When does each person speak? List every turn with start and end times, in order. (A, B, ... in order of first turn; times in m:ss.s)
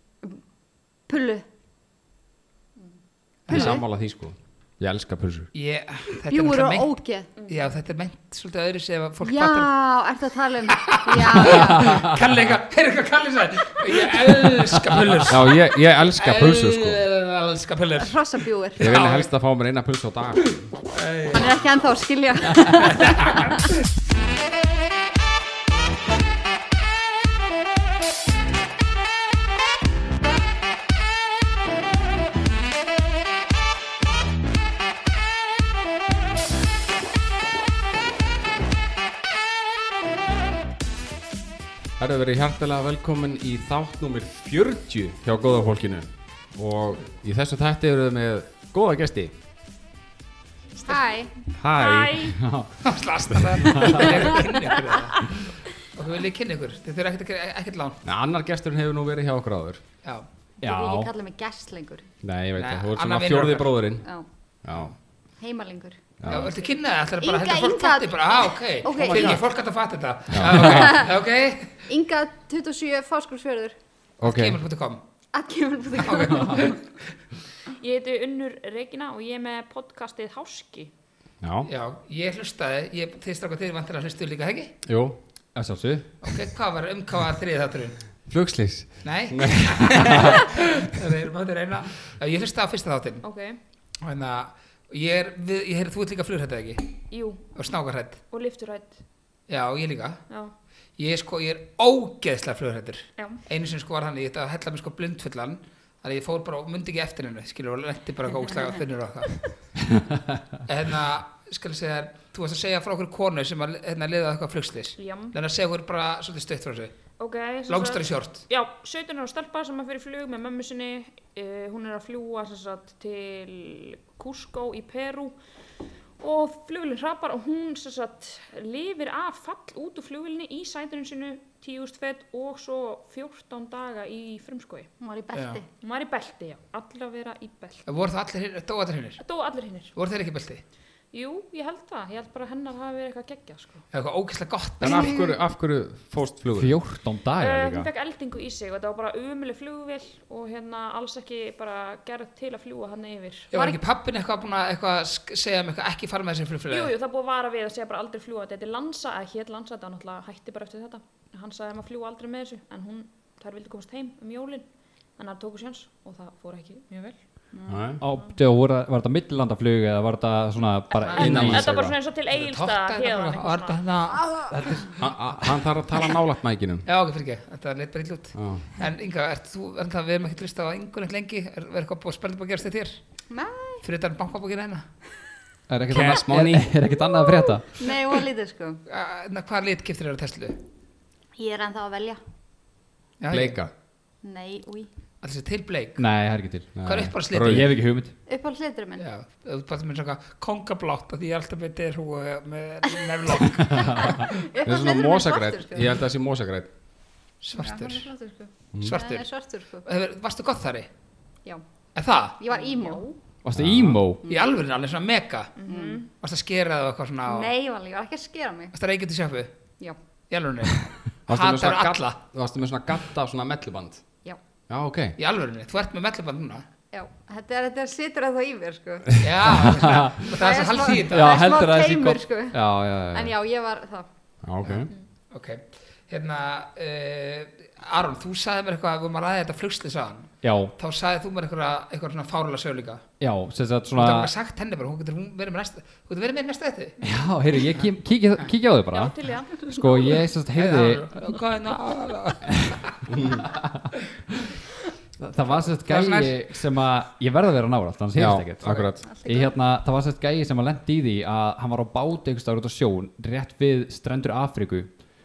0:01.1-0:01.4 A
0:03.5-0:03.8 B
0:03.5-0:03.8 A
0:03.5-0:05.5 C
0:05.5-0:06.9 B
0:06.2-0:07.3 A
0:07.5-0:09.7 B
0:09.2-0:12.0 A
0:10.7-0:19.3 B
0:11.5-0:12.2 D
0:15.3-0:17.0 C
0:18.0-0:18.8 A
0:18.8-0:20.5 C
0:20.9-0:21.6 B
0:21.3-0:23.7 A
0:22.8-0:23.8 B
0:42.0-0:49.3 C
0:50.8-0:51.3 A
0:51.5-0:52.4 C
0:51.7-0:52.4 E
0:52.4-0:52.9 D
0:52.8-0:55.4 B
0:53.3-0:54.0 C
0:53.6-0:54.1 D
0:54.8-0:55.3 E
0:55.9-0:58.0 B
0:58.0-0:59.8 C
1:00.6-1:01.1 D
1:00.6-1:02.1 A
1:02.2-1:04.0 C
1:02.6-1:03.9 B
1:04.6-1:04.9 C
1:05.4-1:06.5 A
1:06.2-1:06.5 C
1:06.2-1:11.9 B
1:07.2-1:09.4 A
1:08.9-1:09.4 C
1:10.3-1:10.9 C
1:10.6-1:11.1 A
1:11.9-1:13.8 A
1:14.2-1:15.0 B
1:14.2-1:14.6 C
1:15.3-1:16.8 A
1:16.1-1:16.8 B
1:17.7-1:20.9 E
1:21.4-1:21.7 C
1:21.6-1:24.7 B
1:24.8-1:25.2 C
1:25.5-1:26.1 D
1:26.2-1:28.0 B
1:28.2-1:30.4 C
1:29.0-1:33.2 B
1:33.2-1:33.6 E
1:34.0-1:36.9 B
1:37.1-1:37.5 E
1:37.5-1:38.2 B
1:38.3-1:39.0 E
1:39.5-1:40.2 B
1:41.0-1:49.5 B
1:50.6-1:56.9 B
1:55.0-1:55.3 E
1:57.2-2:05.4 E
1:57.7-1:58.5 B
2:06.2-2:14.9 E
2:15.0-2:15.6 A
2:15.3-2:15.6 B
2:15.8-2:17.9 E
2:17.8-2:19.2 B
2:19.2-2:19.9 E
2:19.9-2:20.6 B
2:21.1-2:23.8 E
2:23.9-2:25.3 B
2:24.8-2:26.8 C
2:26.6-2:27.9 D
2:27.4-2:33.8 E
2:33.5-2:36.9 B
2:36.7-2:47.2 E
2:47.5-2:47.8 A
2:47.6-2:48.0 C
2:48.0-2:51.7 D
2:51.1-2:53.8 E
2:51.1-2:51.9 C
2:52.3-2:54.5 B
2:54.2-2:54.9 A
2:54.5-2:55.4 D
2:55.0-2:56.8 C
2:56.8-3:03.0 B
2:58.3-2:58.7 C
3:03.3-3:03.8 A
3:03.8-3:04.8 B
3:05.7-3:07.8 D
3:05.9-3:06.7 C
3:07.7-3:08.8 A
3:08.9-3:10.6 B
3:11.3-3:12.2 A
3:13.2-3:13.6 B
3:13.3-3:13.7 C
3:14.2-3:14.9 A
3:15.2-3:16.0 B
3:16.0-3:18.1 D
3:16.8-3:17.7 C
3:16.8-3:17.8 B
3:18.2-3:19.0 A
3:19.0-3:24.5 B
3:23.8-3:24.0 D
3:24.0-3:25.9 A
3:24.6-3:26.7 C
3:27.4-3:28.1 B
3:27.6-3:29.8 A
3:28.8-3:29.2 B
3:29.8-3:30.9 B
3:31.9-3:32.4 B
3:32.4-3:33.2 A
3:32.5-3:33.0 E
3:33.4-3:34.2 D
3:33.6-3:34.0 C
3:34.2-3:35.5 B
3:35.6-3:36.1 E
3:35.7-3:36.0 A
3:36.1-3:37.5 B
3:37.2-3:38.7 A
3:38.7-3:39.5 B
3:40.3-3:42.2 B
3:41.3-3:45.2 C
3:45.2-3:46.6 B
3:46.9-3:49.3 A
3:49.2-3:51.4 B
3:49.8-3:50.3 D
3:50.3-3:54.1 A
3:51.0-3:53.3 D
3:54.4-3:54.9 C
3:54.6-4:03.0 B
4:00.4-4:00.7 D
4:03.2-4:04.3 D
4:03.9-4:06.9 B
4:07.0-4:11.1 D
4:08.9-4:10.2 E
4:10.5-4:13.1 B
4:12.4-4:12.8 D
4:13.1-4:13.4 C
4:13.4-4:14.4 D
4:15.2-4:24.9 D
4:15.8-4:16.4 B
4:18.2-4:19.0 C
4:19.0-4:19.5 A